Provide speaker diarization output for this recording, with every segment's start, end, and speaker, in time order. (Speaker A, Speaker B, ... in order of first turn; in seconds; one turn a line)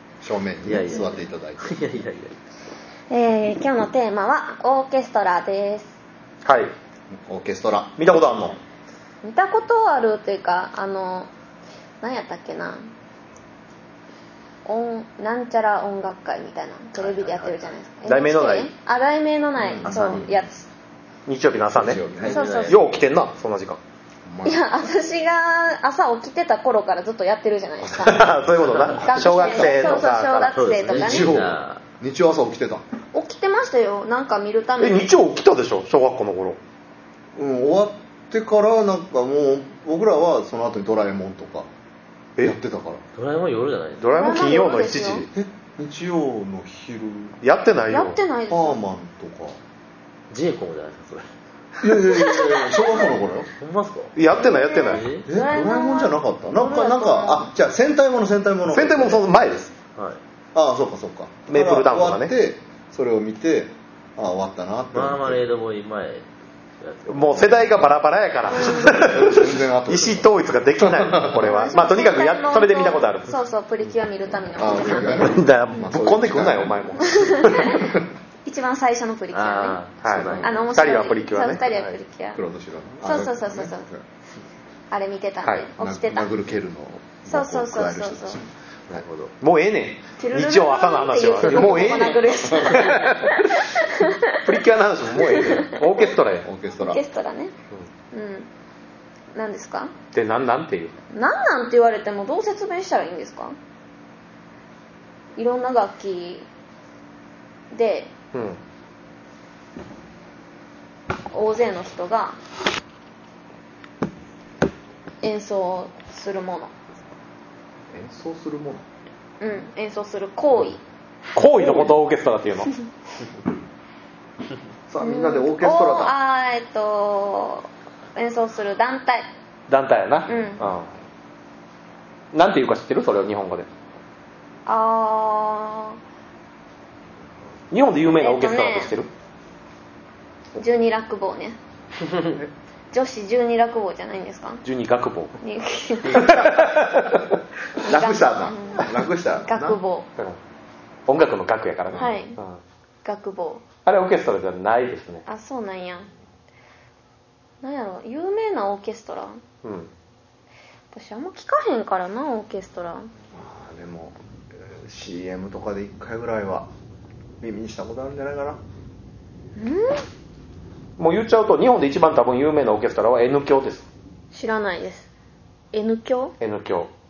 Speaker A: 0.2-1.8
Speaker B: 0.6-2.3
Speaker C: 0.9-1.2
Speaker C: 3.1-5.9
Speaker D: 6.4-6.7
Speaker A: 7.1-8.4
Speaker D: 8.0-8.6
Speaker C: 9.2-11.3
Speaker C: 12.0-12.9
Speaker C: 14.6-20.7
Speaker B: 17.0-17.7
Speaker D: 18.0-18.7
Speaker A: 19.6-20.3
Speaker B: 19.8-20.3
Speaker D: 21.2-22.0
Speaker A: 21.7-22.4
Speaker B: 22.2-22.9
Speaker C: 22.3-22.8
Speaker D: 22.6-23.8
Speaker A: 24.2-24.6
Speaker C: 24.4-28.3
Speaker D: 27.8-30.6
Speaker A: 28.0-28.4
Speaker C: 29.0-31.4
Speaker A: 29.3-30.0
Speaker B: 30.5-31.8
Speaker A: 30.8-32.8
Speaker C: 33.1-35.1
Speaker D: 34.8-36.6
Speaker A: 37.4-41.7
Speaker A: 42.4-43.0
Speaker B: 43.1-44.1
Speaker D: 44.0-45.3
Speaker C: 44.1-45.2
Speaker A: 45.3-47.4
Speaker D: 47.4-48.2
Speaker C: 47.9-48.8
Speaker A: 48.5-49.6
Speaker B: 50.3-51.3
Speaker A: 51.8-53.5
Speaker C: 52.2-53.0
Speaker B: 53.6-54.2
Speaker D: 54.1-55.0
Speaker C: 54.3-57.5
Speaker B: 54.8-55.2
Speaker A: 55.3-59.2
Speaker D: 58.7-59.7
Speaker A: 60.5-65.4
Speaker D: 61.5-62.3
Speaker B: 64.9-66.2
Speaker B: 66.8-67.8
Speaker D: 67.1-73.3
Speaker C: 68.5-68.9
Speaker A: 68.7-70.3
Speaker A: 70.8-71.5
Speaker C: 71.4-75.8
Speaker A: 74.5-78.0
Speaker D: 75.2-77.8
Speaker C: 77.1-79.8
Speaker B: 79.3-80.7
Speaker D: 80.0-81.6
Speaker A: 80.2-80.5
Speaker C: 80.4-82.4
Speaker B: 81.7-82.0
Speaker A: 82.3-84.0
Speaker C: 83.0-83.9
Speaker C: 84.9-86.3
Speaker A: 85.8-89.0
Speaker C: 87.3-88.4
Speaker B: 88.9-89.3
Speaker D: 89.4-93.6
Speaker C: 90.2-94.5
Speaker A: 92.1-93.0
Speaker D: 94.4-96.5
Speaker C: 95.2-95.8
Speaker A: 96.4-97.0
Speaker C: 96.8-97.5
Speaker C: 98.1-98.5
Speaker C: 99.3-99.9
Speaker D: 100.1-100.9
Speaker C: 101.1-103.5
Speaker C: 105.4-106.5
Speaker C: 107.7-108.1
Speaker D: 108.3-108.6
Speaker C: 111.3-112.4
Speaker C: 115.2-116.7
Speaker A: 117.9-118.8
Speaker C: 119.4-120.8
Speaker D: 121.3-122.7
Speaker A: 124.9-126.1
Speaker C: 125.0-129.3
Speaker D: 129.7-130.9
Speaker C: 130.3-130.6
Speaker D: 132.3-133.7
Speaker C: 134.7-136.0
Speaker D: 137.7-139.1
Speaker C: 138.1-138.9
Speaker C: 140.6-141.6
Speaker C: 142.9-144.6
Speaker D: 144.6-145.3
Speaker C: 145.4-146.4
Speaker D: 146.1-147.4
Speaker A: 146.2-146.5
Speaker A: 147.8-149.8
Speaker C: 147.8-150.1
Speaker D: 151.1-152.6
Speaker C: 151.9-152.4
Speaker C: 153.0-153.6
Speaker D: 153.8-155.2
Speaker C: 155.2-156.1
Speaker C: 157.6-159.4
Speaker D: 159.6-159.9
Speaker C: 160.9-163.1
Speaker A: 163.3-166.7
Speaker A: 167.4-168.6
Speaker C: 169.6-170.0
Speaker D: 171.0-173.9
Speaker C: 174.3-175.1
Speaker C: 175.7-176.3
Speaker D: 176.4-176.9